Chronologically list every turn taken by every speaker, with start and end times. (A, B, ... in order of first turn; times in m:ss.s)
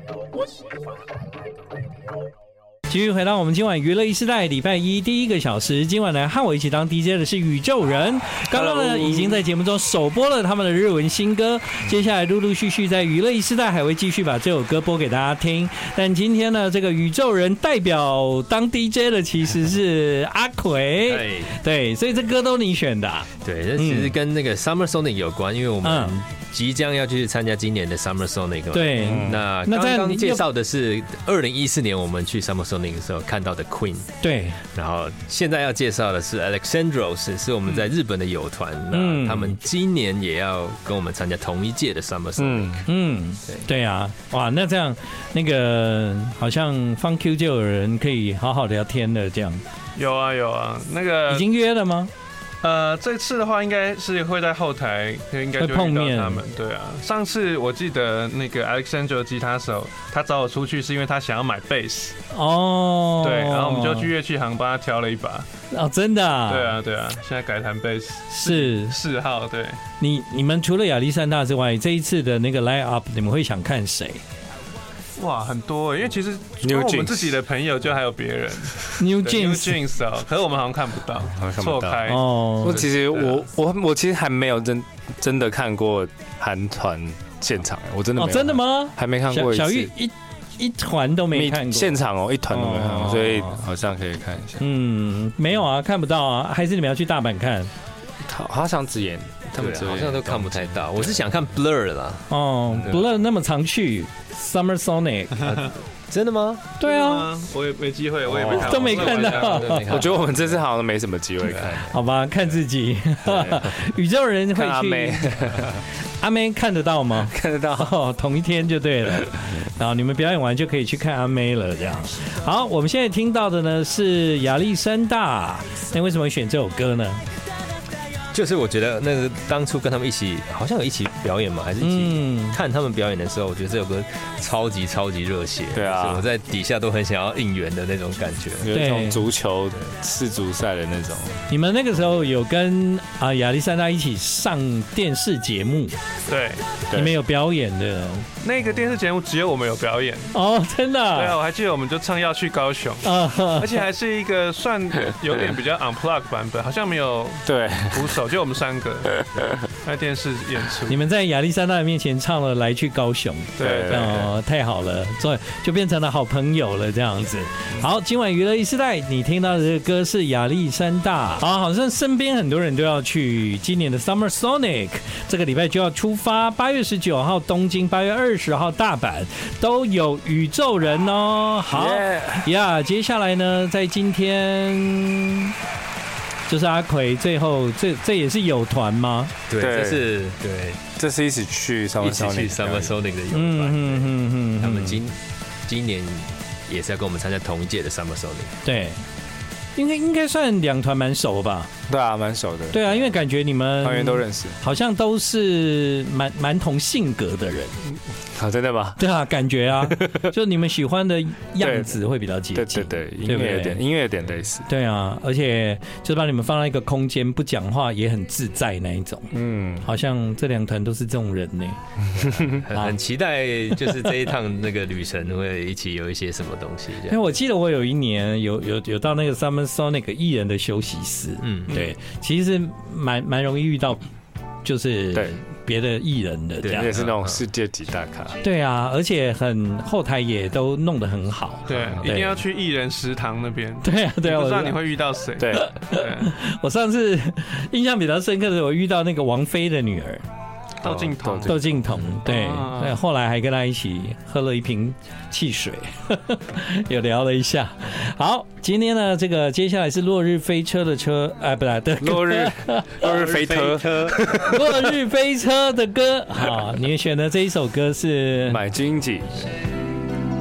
0:02.9-0:24.2 A
0:08.5-0:09.4 B
0:21.1-0:21.5 C
0:23.4-0:34.1 C
0:25.8-0:26.2 A
0:28.7-0:30.4 A
0:29.0-0:29.4 B
0:34.2-0:34.6 A
0:34.7-0:42.9 C
0:38.9-0:39.6 A
0:42.4-0:42.8 B
0:42.9-0:49.6 A
0:50.0-0:51.5 D
0:51.3-0:52.1 A
0:52.6-1:02.2 D
0:55.6-0:56.4 A
1:02.3-1:04.1 A
1:03.2-1:05.5 D
1:05.7-1:06.8 A
1:06.5-1:09.8 D
1:08.3-1:09.0 A
1:10.0-1:14.2 A
1:15.2-1:22.3 D
1:16.6-1:17.4 B
1:19.0-1:19.8 A
1:21.4-1:22.1 B
1:22.0-1:22.8 A
1:22.6-1:29.9 B
1:28.2-1:32.0 A
1:31.3-1:34.6 B
1:32.5-1:33.6 A
1:34.6-1:37.7 A
1:38.2-1:41.2 B
1:39.6-1:42.3 C
1:42.3-1:45.5 A
1:45.4-1:46.7 C
1:46.8-1:47.3 A
1:46.8-1:49.8 D
1:48.3-1:48.7 B
1:48.4-1:50.6 C
1:48.6-1:49.9 A
1:49.9-1:52.0 B
1:51.9-1:55.7 A
1:53.2-1:53.7 B
1:54.5-1:55.8 B
1:56.2-2:07.2 A
1:57.2-1:57.9 B
2:08.3-2:18.7 C
2:11.8-2:12.6 A
2:15.7-2:16.3 B
2:18.6-2:21.4 B
2:18.7-2:19.2 A
2:21.5-2:26.0 A
2:26.3-2:26.8 D
2:26.9-2:28.3 A
2:28.4-2:30.3 D
2:30.3-2:31.4 A
2:31.1-2:41.0 D
2:33.0-2:33.8 A
2:37.5-2:38.1 B
2:40.9-3:05.5 A
2:43.6-2:44.1 D
2:43.6-2:44.3 B
3:01.7-3:02.5 B
3:06.5-3:09.3 A
3:09.5-3:10.8 C
3:09.6-3:10.2 B
3:11.0-3:13.0 B
3:12.0-3:18.6 C
3:13.3-3:15.0 A
3:18.6-3:19.0 A
3:19.8-3:21.7 A
3:21.9-3:23.2 B
3:22.7-3:27.8 A
3:23.8-3:24.6 B
3:28.3-3:29.0 B
3:29.0-3:33.8 A
3:29.9-3:30.2 B
3:31.6-3:32.0 B
3:32.5-3:34.7 B
3:34.7-3:41.8 A
3:39.3-3:39.9 B
3:42.1-3:42.7 B
3:42.4-3:47.2 C
3:47.1-3:54.0 A
3:51.4-3:51.8 C
3:54.6-3:56.9 A
3:55.1-3:55.4 B
3:56.6-3:57.4 C
3:56.7-3:58.4 B
3:58.4-4:02.4 A
4:01.7-4:06.4 D
4:03.8-4:04.8 A
4:05.4-4:05.7 B
4:05.5-4:10.2 A
4:10.8-4:13.0 D
4:10.8-4:11.7 B
4:11.4-4:23.0 A
4:22.0-4:24.9 B
4:23.0-4:24.3 C
4:24.4-4:28.6 A
4:28.4-4:29.4 B